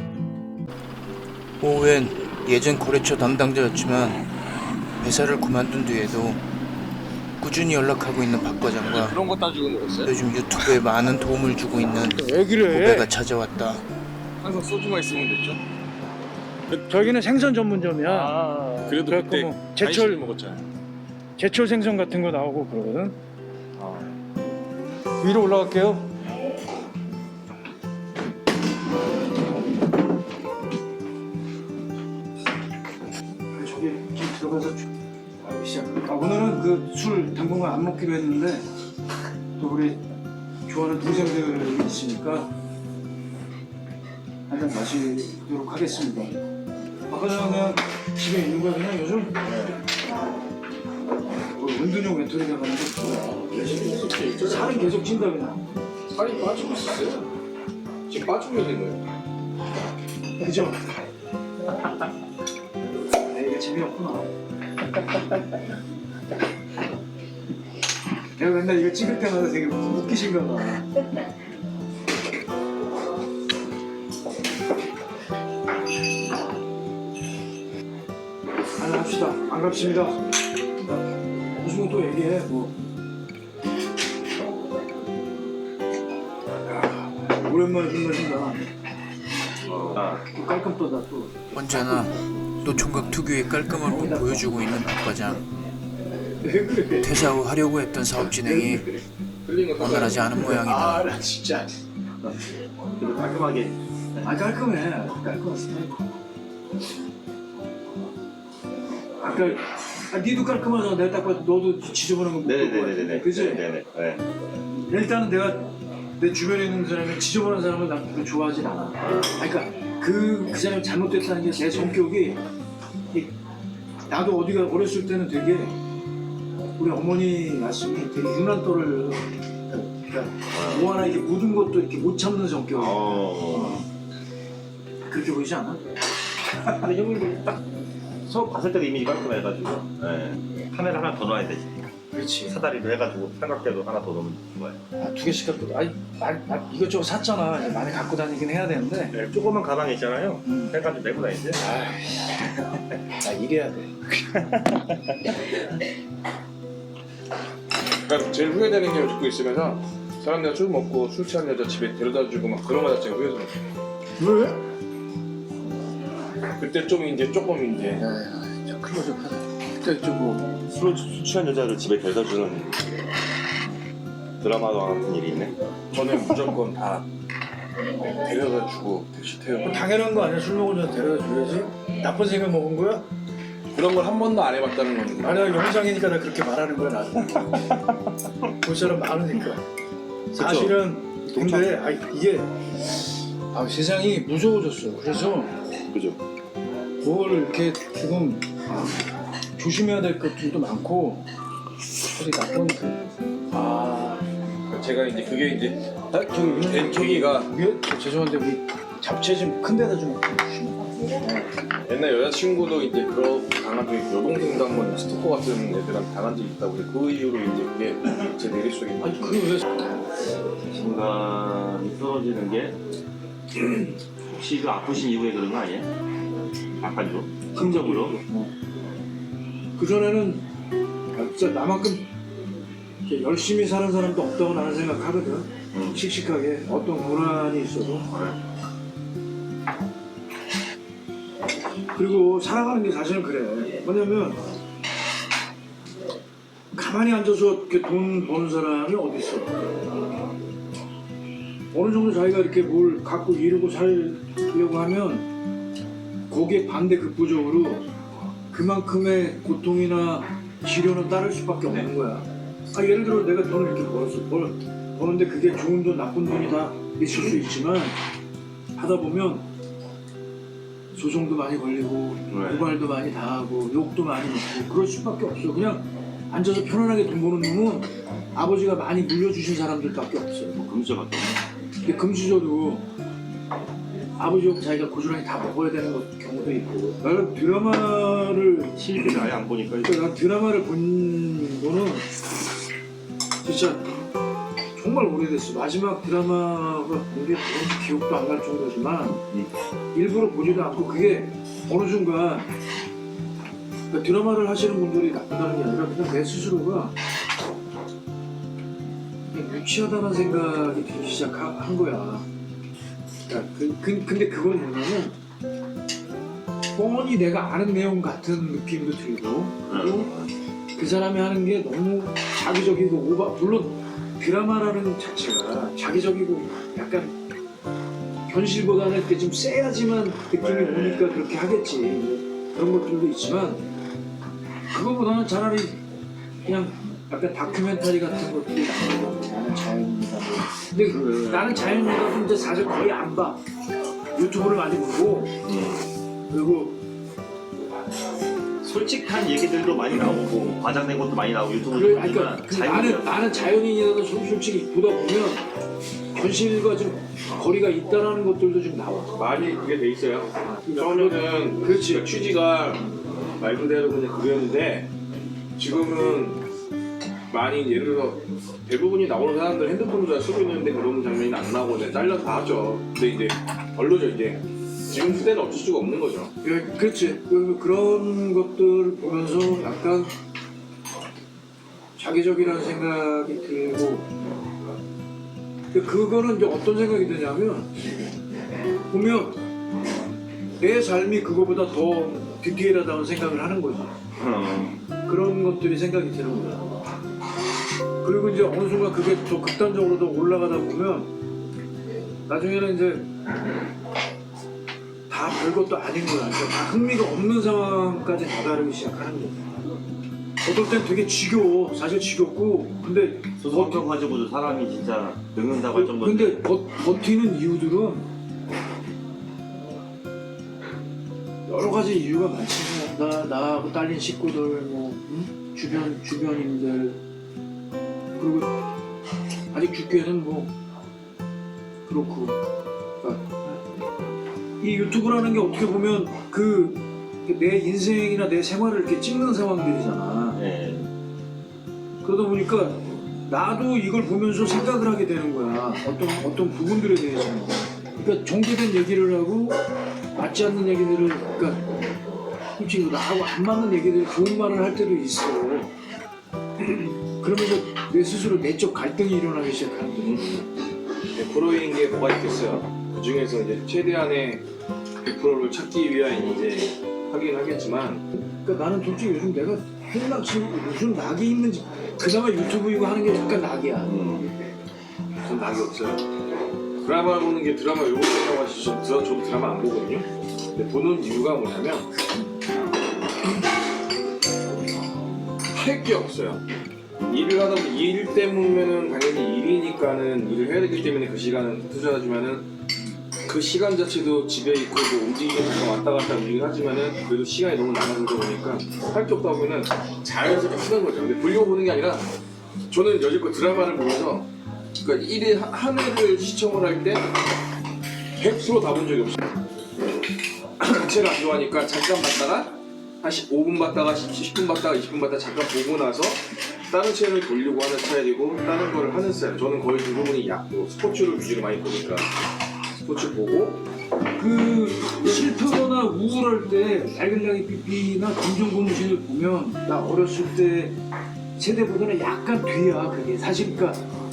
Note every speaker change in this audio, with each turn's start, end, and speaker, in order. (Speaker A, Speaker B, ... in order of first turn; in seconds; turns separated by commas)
Speaker A: 1.6-4.2, Speaker A: 5.0-6.4, Speaker A: 7.4-9.2, Speaker B: 8.9-10.1, Speaker A: 10.1-13.8, Speaker C: 12.0-13.1, Speaker B: 14.4-15.6, Speaker B: 16.7-17.1, Speaker C: 16.8-18.3, Speaker B: 18.0-20.6, Speaker D: 18.3-18.9, Speaker C: 19.1-20.2, Speaker C: 21.4-23.2, Speaker C: 25.2-26.1, Speaker C: 33.5-34.9, Speaker C: 35.4-38.6, Speaker C: 39.6-40.0, Speaker C: 40.7-42.5, Speaker C: 44.5-46.4, Speaker C: 47.1-49.4, Speaker B: 49.4-49.8, Speaker C: 51.5-53.5, Speaker B: 53.5-55.0, Speaker C: 54.4-55.6, Speaker B: 56.1-57.3, Speaker B: 58.1-59.0, Speaker C: 60.4-60.8, Speaker C: 63.2-64.3, Speaker C: 68.4-70.9, Speaker C: 78.8-80.2, Speaker C: 81.6-82.7, Speaker C: 86.7-88.7, Speaker D: 89.9-90.2, Speaker C: 90.2-92.1, Speaker A: 91.5-95.5, Speaker C: 93.8-94.6, Speaker C: 96.4-97.3, Speaker A: 97.0-98.9, Speaker C: 98.4-98.9, Speaker B: 99.5-100.6, Speaker A: 99.8-101.1, Speaker C: 100.6-101.7, Speaker D: 103.0-104.3, Speaker C: 104.2-105.9, Speaker C: 109.2-113.7, Speaker D: 112.4-114.2, Speaker C: 114.9-122.4, Speaker D: 119.0-119.5, Speaker C: 124.1-125.8, Speaker C: 126.8-133.8, Speaker D: 130.5-130.9, Speaker D: 132.8-133.9, Speaker C: 135.1-135.8, Speaker B: 136.9-137.5, Speaker D: 138.3-141.8, Speaker C: 142.1-142.6, Speaker D: 142.5-144.8, Speaker C: 145.0-149.2, Speaker D: 149.1-151.6, Speaker C: 150.5-150.7, Speaker C: 151.6-154.5, Speaker B: 158.1-163.5, Speaker C: 164.2-164.6, Speaker B: 166.6-168.0, Speaker C: 168.0-170.5, Speaker D: 170.7-172.8, Speaker D: 174.4-175.6, Speaker B: 175.9-177.1, Speaker B: 178.0-179.7, Speaker C: 179.6-183.1, Speaker B: 183.7-185.4, Speaker C: 185.2-187.7, Speaker C: 188.6-189.6, Speaker C: 190.3-192.5, Speaker D: 190.4-190.8, Speaker D: 191.3-191.8, Speaker C: 193.5-195.5, Speaker D: 195.9-196.2, Speaker C: 197.0-198.5, Speaker C: 199.6-201.2, Speaker C: 202.0-204.2, Speaker B: 204.7-207.5, Speaker C: 206.3-210.7, Speaker B: 211.2-219.4, Speaker C: 219.0-219.6, Speaker D: 220.7-222.8, Speaker D: 224.2-225.9, Speaker D: 226.8-228.2, Speaker C: 227.5-228.5, Speaker C: 229.8-230.5, Speaker C: 231.1-232.1, Speaker C: 233.1-238.1, Speaker D: 235.7-236.1, Speaker D: 238.1-238.4, Speaker C: 241.9-244.4, Speaker C: 246.7-249.6, Speaker C: 251.7-255.3, Speaker C: 256.3-257.8, Speaker C: 258.5-267.9, Speaker C: 268.8-269.5, Speaker C: 270.9-280.6, Speaker D: 272.3-272.7, Speaker D: 280.6-281.4, Speaker C: 281.8-282.9, Speaker C: 284.2-289.3, Speaker D: 288.8-290.1, Speaker C: 289.8-292.1, Speaker C: 293.4-293.9, Speaker C: 294.8-299.2, Speaker C: 299.9-302.5, Speaker C: 303.9-306.9, Speaker C: 309.3-312.3, Speaker C: 313.3-315.2, Speaker C: 316.7-320.1, Speaker D: 319.7-320.3, Speaker C: 320.8-327.2, Speaker C: 328.3-333.7, Speaker D: 330.4-331.2, Speaker C: 334.7-335.8, Speaker C: 336.4-343.4, Speaker D: 340.9-341.8, Speaker C: 344.1-345.4, Speaker D: 345.4-345.9, Speaker C: 346.3-346.8, Speaker D: 348.6-353.6, Speaker C: 351.7-355.5, Speaker C: 356.1-359.2, Speaker B: 359.1-364.9, Speaker C: 360.7-362.1, Speaker B: 365.6-366.4, Speaker B: 367.3-376.3, Speaker C: 376.4-380.1, Speaker C: 382.0-384.1, Speaker C: 385.7-387.7, Speaker C: 388.9-389.4, Speaker C: 390.6-393.9, Speaker D: 394.2-394.8, Speaker C: 395.1-396.7, Speaker C: 398.0-401.1, Speaker C: 402.3-403.1, Speaker C: 405.1-409.4, Speaker C: 410.4-413.9, Speaker D: 413.4-416.4, Speaker C: 415.7-418.1, Speaker C: 421.5-427.0, Speaker C: 428.2-428.5, Speaker C: 429.5-430.5, Speaker C: 431.9-432.4, Speaker C: 433.0-433.6, Speaker C: 434.6-440.4, Speaker D: 440.4-440.9, Speaker C: 442.0-449.6, Speaker C: 450.1-451.7, Speaker C: 452.6-455.7, Speaker C: 456.6-460.3, Speaker B: 460.0-460.5, Speaker B: 461.1-464.4, Speaker B: 465.0-468.0, Speaker C: 468.2-474.1, Speaker D: 473.9-474.3, Speaker B: 475.2-476.1, Speaker B: 476.8-481.9, Speaker B: 485.5-486.4, Speaker B: 487.0-492.5, Speaker B: 493.3-502.1, Speaker B: 502.7-504.3, Speaker B: 504.8-507.1, Speaker B: 508.2-509.2, Speaker B: 510.6-522.1, Speaker B: 522.8-523.6, Speaker C: 524.2-530.8, Speaker C: 531.4-533.8